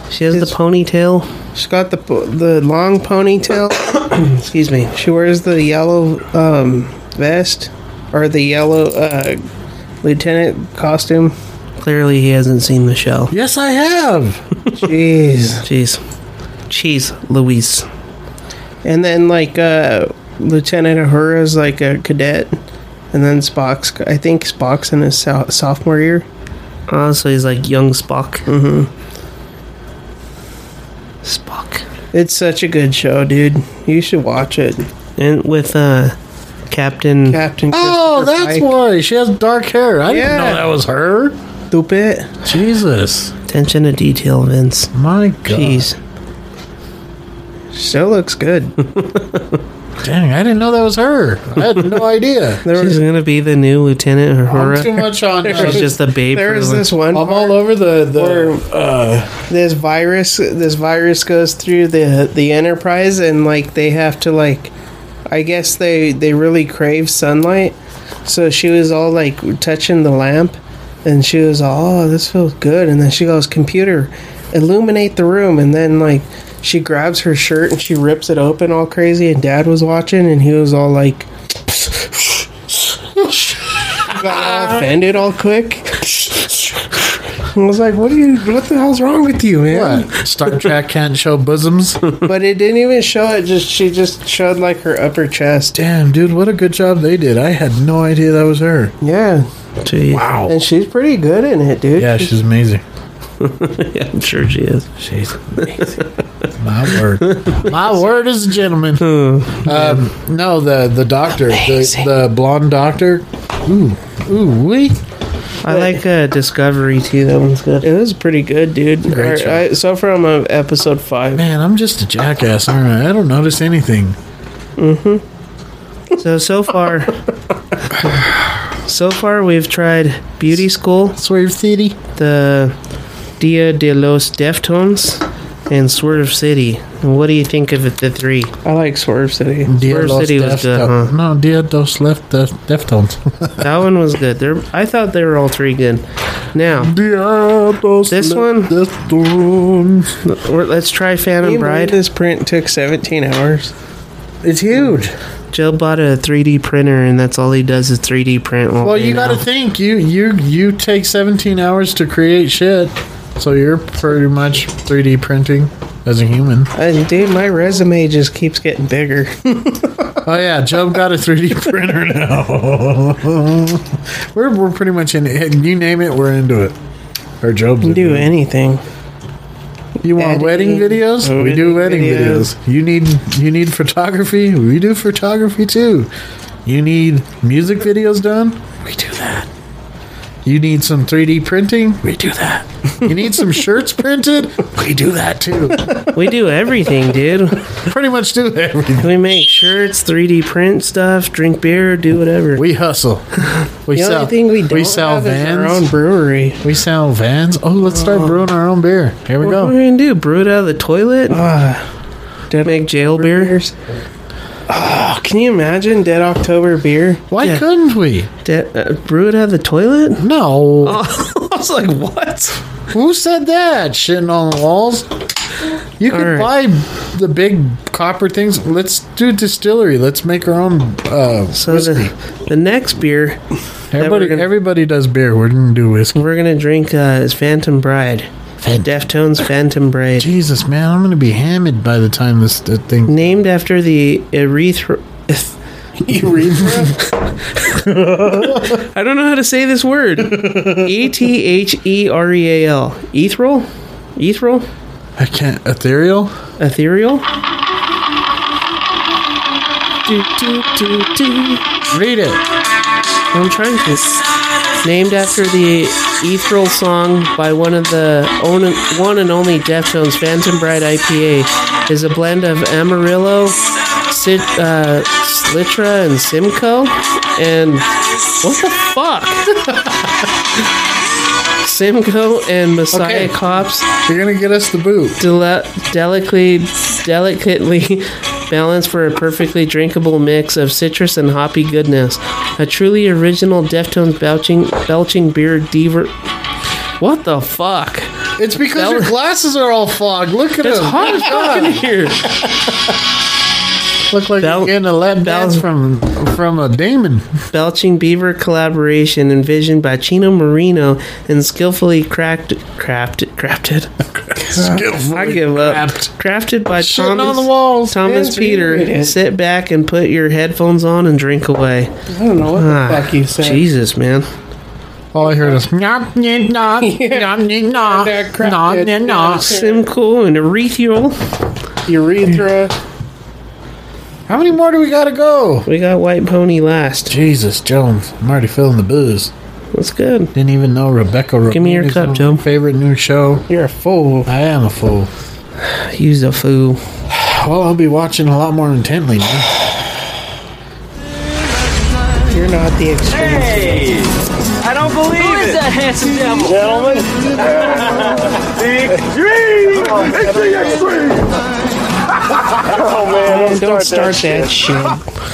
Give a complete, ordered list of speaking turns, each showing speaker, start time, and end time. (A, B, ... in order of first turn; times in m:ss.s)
0:00.1-0:01.3 A
0:01.5-0:04.2 B
0:04.3-0:04.9 A
0:04.9-0:09.4 B
0:10.0-0:11.3 B
0:11.8-0:13.3 A
0:13.3-0:14.4 C
0:14.7-0:15.6 B
0:15.6-0:16.0 A
0:16.7-0:17.9 A
0:18.8-0:22.6 B
0:23.1-0:26.2 B
0:26.9-0:28.4 A
0:28.5-0:28.9 B
0:31.2-0:31.8 A
0:32.1-0:34.9 B
0:35.2-0:36.2 A
0:36.7-0:37.4 A
0:37.3-0:38.7 B
0:37.7-0:41.4 C
0:40.1-0:40.7 B
0:41.7-0:42.3 B
0:42.4-0:43.3 C
0:43.5-0:44.9 A
0:44.9-0:45.9 C
0:45.5-0:46.0 A
0:47.7-0:48.8 B
0:50.0-0:52.6 C
0:52.6-0:53.0 B
0:52.7-0:56.9 A
0:54.5-0:55.9 C
0:55.4-0:58.7 B
0:57.1-0:59.4 C
0:59.5-1:04.7 B
1:05.3-1:07.7 B
1:08.2-1:22.5 B
1:23.2-1:24.9 C
1:24.0-1:26.9 B
1:27.4-1:30.2 B
1:29.7-1:32.0 C
1:32.2-1:35.8 B
1:35.7-1:38.9 C
1:39.0-1:39.5 B
1:39.8-1:40.3 A
1:40.1-1:40.5 C
1:40.5-1:42.3 B
1:42.0-1:42.8 C
1:43.4-1:45.0 A
1:45.0-1:45.9 C
1:45.5-1:46.0 A
1:46.6-1:49.0 C
1:47.2-1:47.7 A
1:49.0-1:50.0 A
1:49.6-1:55.0 C
1:51.5-1:52.0 B
1:55.6-1:57.9 A
1:55.7-1:56.0 B
1:57.8-2:01.4 B
1:59.1-1:59.7 C
2:01.3-2:04.2 C
2:04.9-2:05.2 A
2:06.2-2:07.2 A
2:08.8-2:11.2 A
2:11.2-2:12.0 C
2:12.2-2:12.7 A
2:13.4-2:18.5 A
2:18.6-2:19.7 B
2:19.6-2:23.6 C
2:19.8-2:21.1 A
2:23.6-2:26.9 A
2:26.8-2:30.2 C
2:28.1-2:28.7 A
2:30.2-2:31.9 A
2:31.4-2:33.7 B
2:34.4-2:35.1 C
2:35.5-2:39.4 A
2:38.8-2:46.7 C
2:46.7-2:50.2 B
2:50.2-2:56.8 C
2:57.4-2:58.3 C
2:57.8-2:58.8 B
3:00.0-3:06.1 C
3:00.2-3:02.5 B
3:06.6-3:09.5 C
3:10.4-3:16.0 C
3:16.1-3:17.7 A
3:17.7-3:19.2 C
3:19.0-3:22.6 A
3:22.6-3:25.9 C
3:23.9-3:26.6 B
3:26.6-3:29.7 C
3:28.0-3:28.3 B
3:29.4-3:31.4 A
3:31.3-3:31.8 B
3:32.5-3:33.7 B
3:32.6-3:33.5 A
3:34.7-3:37.2 B
3:37.3-3:38.3 C
3:38.4-3:40.2 A
3:40.2-3:41.0 C
3:40.8-3:42.6 A
3:42.9-3:45.1 C
3:46.0-3:52.1 C
3:46.1-3:46.5 A
3:51.5-3:53.4 A
3:53.9-3:56.2 C
3:54.0-3:54.5 A
3:56.1-3:58.3 A
3:58.6-3:58.9 C
3:58.8-4:00.3 A
4:00.2-4:03.2 C
4:03.1-4:05.5 A
4:06.0-4:07.0 C
4:06.2-4:06.9 B
4:07.7-4:08.8 C
4:08.6-4:14.7 A
4:10.2-4:11.1 C
4:15.2-4:16.3 C
4:16.6-4:17.2 A
4:20.1-4:21.6 A
4:21.9-4:22.4 C
4:23.3-4:24.1 A
4:24.8-4:33.6 A
4:34.1-4:37.9 A
4:38.4-4:39.6 A
4:41.6-4:43.9 A
4:42.9-4:43.4 C
4:43.9-4:45.2 C
4:45.2-4:56.1 A
4:57.0-4:58.1 A
4:58.4-5:01.8 C
4:58.7-4:59.1 A
5:00.6-5:02.3 A
5:04.1-5:07.3 C
5:04.4-5:05.6 A
5:07.5-5:13.9 A
5:14.3-5:16.1 C
5:14.4-5:14.8 B
5:15.1-5:21.9 A
5:16.7-5:18.0 C
5:18.0-5:19.2 B
5:22.1-5:23.6 B
5:22.5-5:24.3 A
5:25.1-5:29.5 C
5:25.2-5:25.6 B
5:26.8-5:29.9 B
5:29.4-5:31.2 A
5:31.8-5:32.7 B
5:34.3-5:35.7 C
5:35.6-5:37.1 A
5:37.1-5:39.3 C
5:39.7-5:40.3 A
5:40.3-5:43.4 C
5:41.5-5:42.4 A
5:43.5-5:44.3 B
5:44.2-5:45.1 C
5:45.7-5:46.8 A
5:47.1-5:49.5 C
5:52.3-5:53.8 B
5:53.7-5:54.1 D
5:54.6-5:55.6 D
5:55.8-5:56.2 A
5:56.3-6:01.4 D
6:02.4-6:04.7 D
6:03.2-6:05.0 B